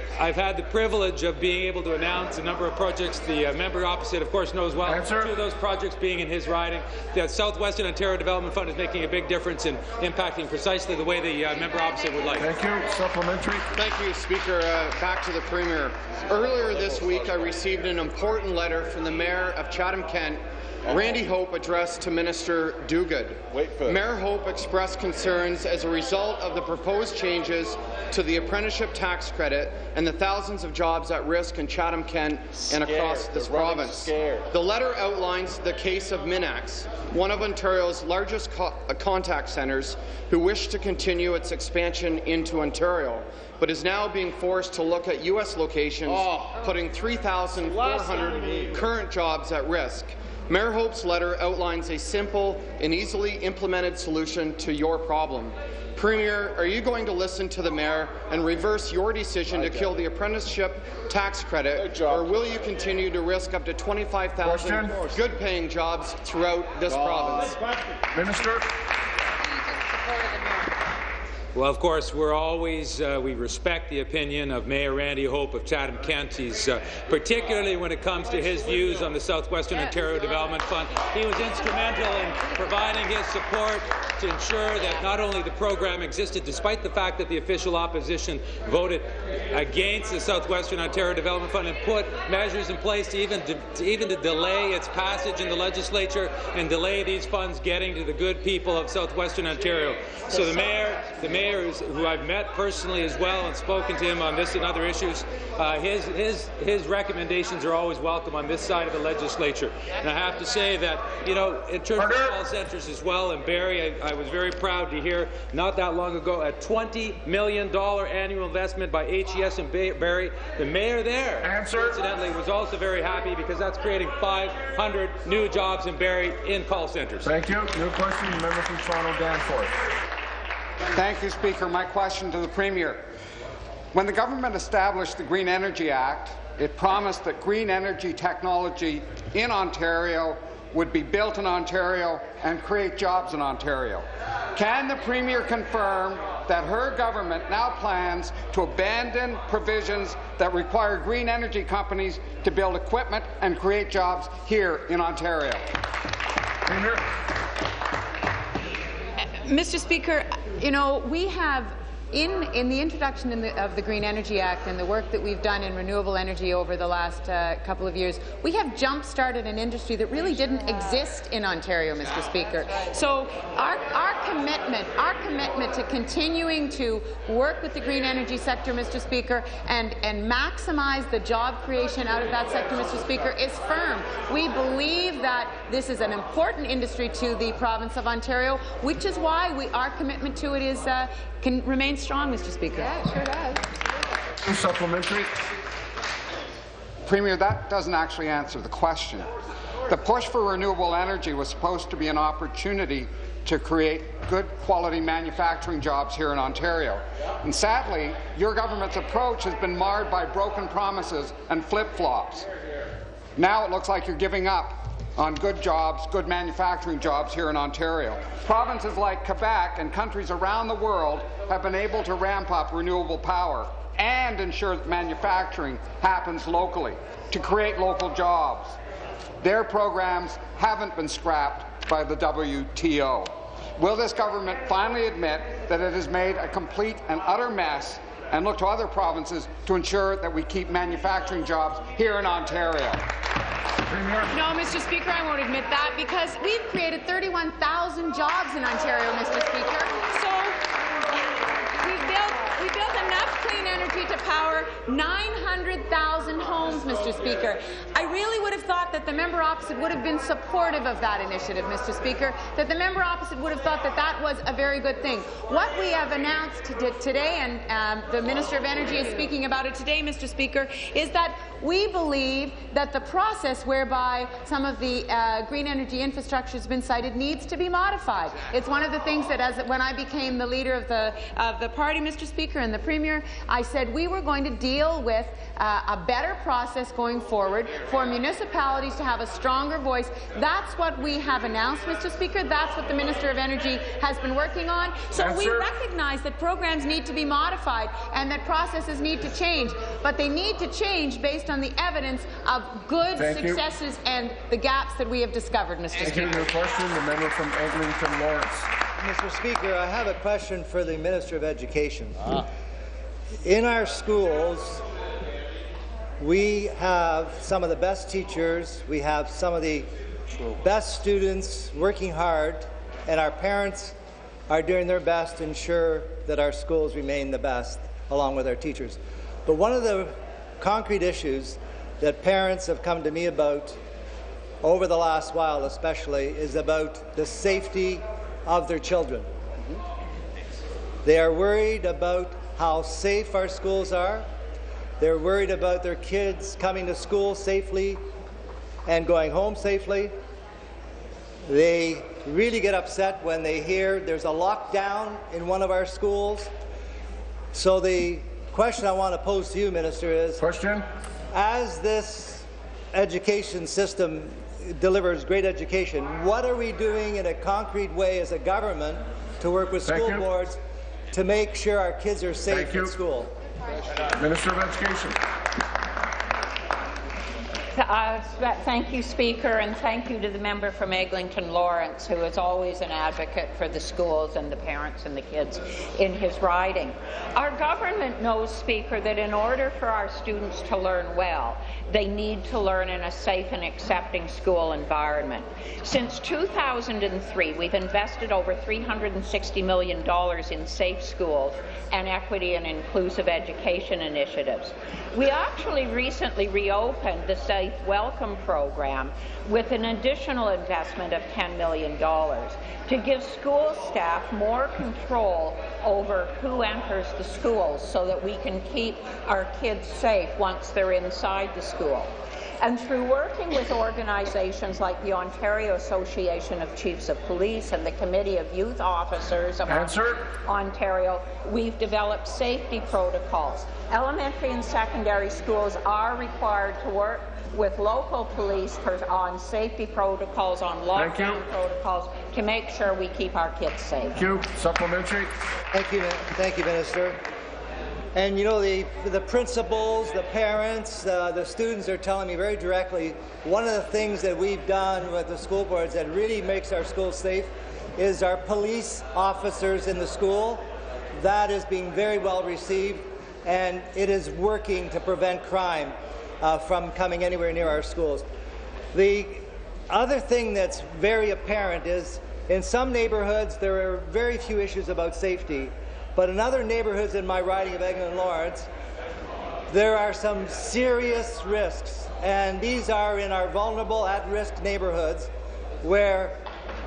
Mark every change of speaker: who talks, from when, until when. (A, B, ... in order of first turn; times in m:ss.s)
0:00.2-0:12.5 A
0:04.8-0:05.4 B
0:12.4-0:13.7 B
0:13.7-1:07.6 C
1:04.4-1:05.1 B
1:08.1-1:08.7 B
1:11.6-2:07.3 A
1:52.0-1:52.4 B
2:01.4-2:02.0 B
2:07.2-2:09.8 B
2:11.0-2:13.0 D
2:13.9-2:35.6 D
2:36.7-2:37.0 B
2:39.3-3:13.6 E
3:14.4-3:15.3 B
3:17.1-3:19.3 D
3:19.9-3:32.5 D
3:33.4-3:48.8 D
3:49.4-4:03.0 D
4:03.9-4:04.3 B
4:04.3-4:10.6 E
4:11.8-5:06.5 E
4:55.2-4:55.7 B
5:03.2-5:03.6 B
5:06.0-5:08.7 B
5:09.0-5:12.4 F
5:13.4-5:14.8 F
5:16.2-5:19.9 F
5:20.5-5:24.0 F
5:24.5-5:33.8 F
5:34.6-5:39.3 F
5:41.0-5:44.3 F
5:45.0-5:48.0 F
5:48.9-5:50.1 F
5:51.5-5:56.5 F
5:57.5-6:00.4 F
6:00.4-6:00.9 B
6:01.3-6:10.6 F
6:09.9-6:10.3 B
6:11.1-6:13.3 F
6:12.5-6:12.9 B
6:14.1-6:15.2 B
6:17.8-7:24.2 G
7:09.7-7:10.2 B
7:21.0-7:21.4 B
7:24.2-7:25.3 B
7:25.7-7:27.2 F
7:28.2-7:40.6 F
7:41.2-7:48.2 F
7:48.9-7:58.7 F
7:59.7-8:05.3 F
8:05.8-8:06.4 F